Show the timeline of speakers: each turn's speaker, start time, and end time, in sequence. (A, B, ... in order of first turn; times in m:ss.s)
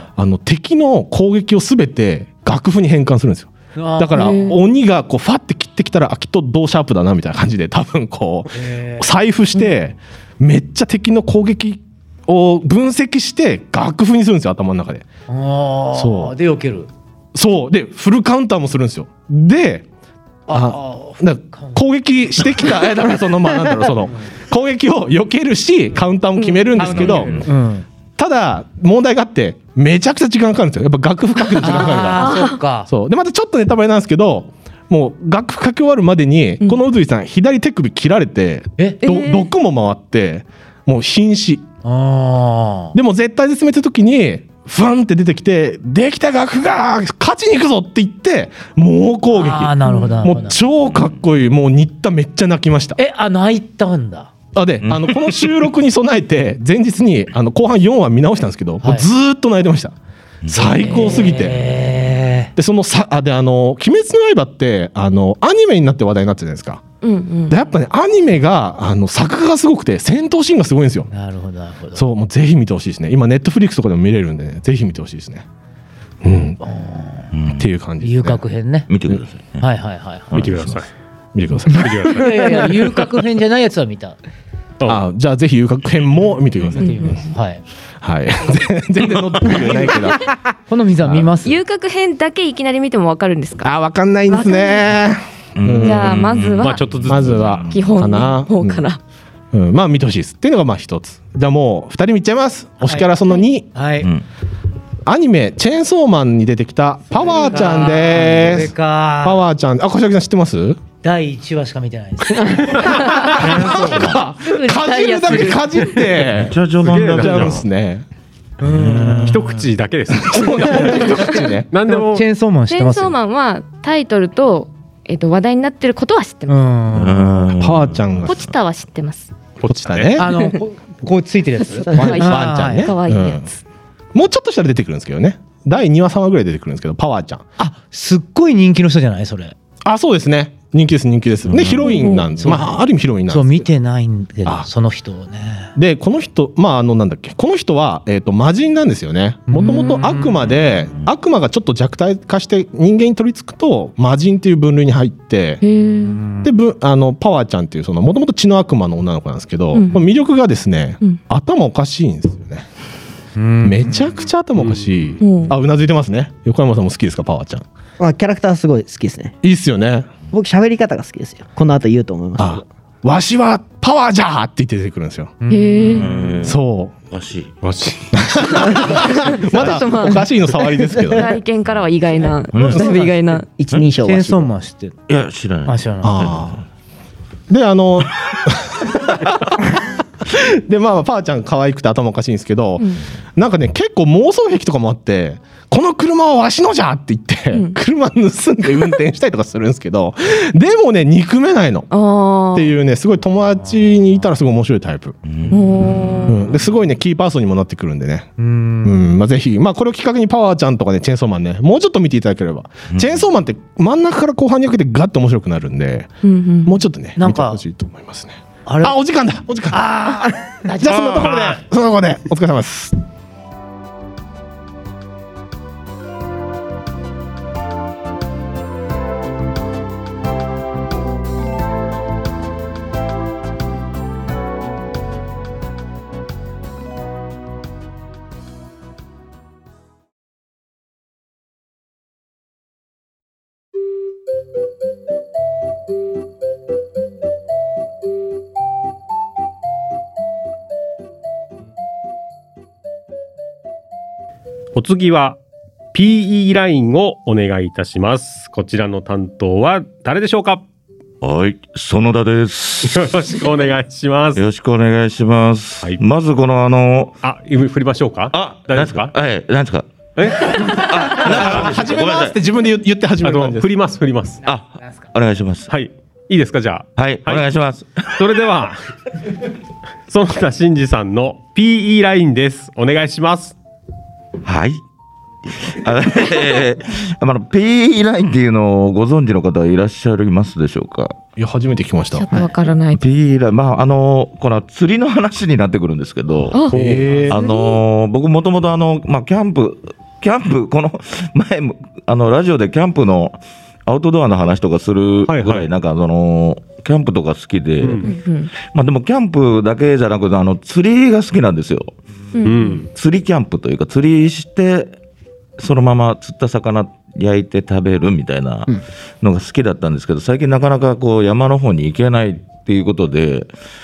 0:00.2-0:15.1 A
0:03.8-0:04.6 B
0:04.1-0:04.6 C
0:08.5-0:09.1 B
0:15.3-0:16.9 B
0:15.9-0:16.3 A
0:17.3-0:19.8 A
0:20.5-0:21.8 B
0:20.5-0:27.5 A
0:26.4-0:26.9 C
0:26.8-0:27.8 B
0:26.8-0:27.5 D
0:28.2-0:41.7 A
0:31.6-0:32.9 B
0:32.1-0:32.6 C
0:39.0-0:39.5 C
0:41.8-0:43.0 B
0:42.9-0:53.0 A
0:49.3-0:50.7 B
0:53.0-0:54.3 B
0:54.5-0:59.9 A
0:54.8-0:55.6 D
0:58.8-0:59.1 B
1:00.5-1:01.6 A
1:00.5-1:02.5 B
1:02.6-1:06.8 A
1:07.0-1:07.7 C
1:07.5-1:11.1 A
1:11.1-1:12.1 B
1:11.9-1:15.4 A
1:16.2-1:16.6 A
1:16.6-1:17.3 B
1:17.3-1:17.7 D
1:17.5-1:18.4 A
1:18.0-1:18.9 B
1:18.9-1:19.7 D
1:19.6-1:20.4 B
1:20.3-1:20.8 D
1:20.3-1:20.9 E
1:21.3-1:22.2 A
1:21.7-1:23.0 E
1:22.0-1:24.2 B
1:24.9-1:27.2 A
1:26.8-1:27.6 B
1:26.8-1:27.3 C
1:28.0-1:30.4 A
1:30.7-1:31.6 B
1:31.0-1:31.3 A
1:31.4-1:33.7 C
1:33.6-1:36.2 A
1:34.3-1:34.9 C
1:35.6-1:37.8 D
1:35.8-1:39.0 C
1:36.6-1:37.6 E
1:37.1-1:38.8 A
1:39.5-1:43.7 A
1:42.8-1:43.1 B
1:43.7-1:44.1 B
1:45.0-1:50.8 A
1:47.2-1:49.4 B
1:47.3-1:47.9 C
1:51.0-1:53.0 B
1:52.8-1:53.7 C
1:52.9-1:58.0 A
1:53.6-1:54.1 B
1:53.6-1:54.1 D
1:54.4-1:56.0 C
1:56.3-1:57.6 D
1:56.8-1:57.6 E
1:58.6-1:59.4 B
1:58.6-1:59.6 D
1:59.2-2:01.1 E
2:00.2-2:01.7 A
2:01.7-2:02.2 E
2:01.9-2:03.1 B
2:02.7-2:06.6 C
2:06.5-2:07.3 B
2:06.9-2:08.3 D
2:07.6-2:08.4 A
2:08.2-2:09.3 C
2:09.6-2:10.2 E
2:09.6-2:10.3 A
2:10.2-2:12.9 B
2:11.9-2:13.4 C
2:12.0-2:13.6 A
2:14.1-2:17.5 A
2:17.6-2:19.5 B
2:19.8-2:23.7 A
2:21.5-2:22.2 D
2:21.8-2:22.4 C
2:22.4-2:25.7 B
2:25.8-2:35.6 A
2:29.5-2:30.6 B
2:35.6-2:36.2 C
2:36.1-2:36.4 B
2:36.4-2:42.6 A
2:39.7-2:40.1 C
2:43.4-2:44.2 B
2:43.6-2:47.6 A
2:44.6-2:44.8 E
2:45.2-2:45.6 C
2:48.0-2:49.3 F
2:49.4-2:50.2 A
2:50.3-2:52.6 F
2:52.4-2:55.3 A
2:55.4-2:56.1 B
2:55.5-2:56.1 C
2:55.8-2:57.5 D
2:56.4-2:57.0 A
2:57.6-2:58.1 E
2:58.1-3:01.3 A
2:58.6-3:00.3 C
3:00.9-3:01.3 F
3:01.1-3:03.4 C
3:02.5-3:02.9 D
3:02.8-3:04.5 F
3:03.9-3:05.0 B
3:05.1-3:06.4 D
3:05.6-3:06.4 B
3:06.0-3:06.6 A
3:07.5-3:21.9 A
3:12.8-3:13.0 C
3:17.5-3:17.8 C
3:21.9-3:22.7 C
3:22.5-3:25.2 A
3:25.2-3:26.3 D
3:25.5-3:26.5 C
3:26.3-3:28.3 A
3:28.4-3:29.1 B
3:28.8-3:36.1 A
3:32.9-3:33.2 D
3:36.2-3:36.8 C
3:36.6-3:40.2 A
3:37.2-3:37.6 B
3:38.6-3:39.0 B
3:39.7-3:41.5 B
3:40.7-3:42.9 A
3:40.8-3:41.4 D
4:14.7-4:15.4 E
4:15.9-4:20.6 E
4:21.2-4:23.2 D
4:22.8-4:24.4 E
4:24.3-4:27.1 D
4:27.2-4:29.1 E
4:28.3-4:32.4 D
4:30.2-4:31.7 E
4:31.2-4:33.7 A
4:33.2-4:34.4 E
4:34.4-4:35.7 D
4:35.7-4:37.5 E
4:37.0-4:38.2 D
4:38.1-4:38.8 E
4:40.1-4:43.5 E
4:44.4-4:44.8 D
4:45.5-4:51.2 D
4:51.4-4:52.5 A
4:52.1-4:53.0 C
4:52.9-4:56.7 D
4:56.5-4:56.8 C
4:56.7-4:57.4 A
4:56.7-4:57.1 E
4:57.3-4:57.8 C
4:57.3-5:11.9 D
5:05.3-5:05.7 E
5:07.8-5:08.1 E
5:08.0-5:08.5 C
5:12.4-5:12.8 C
5:12.4-5:12.9 E
5:12.9-5:15.0 D
5:15.6-5:23.5 D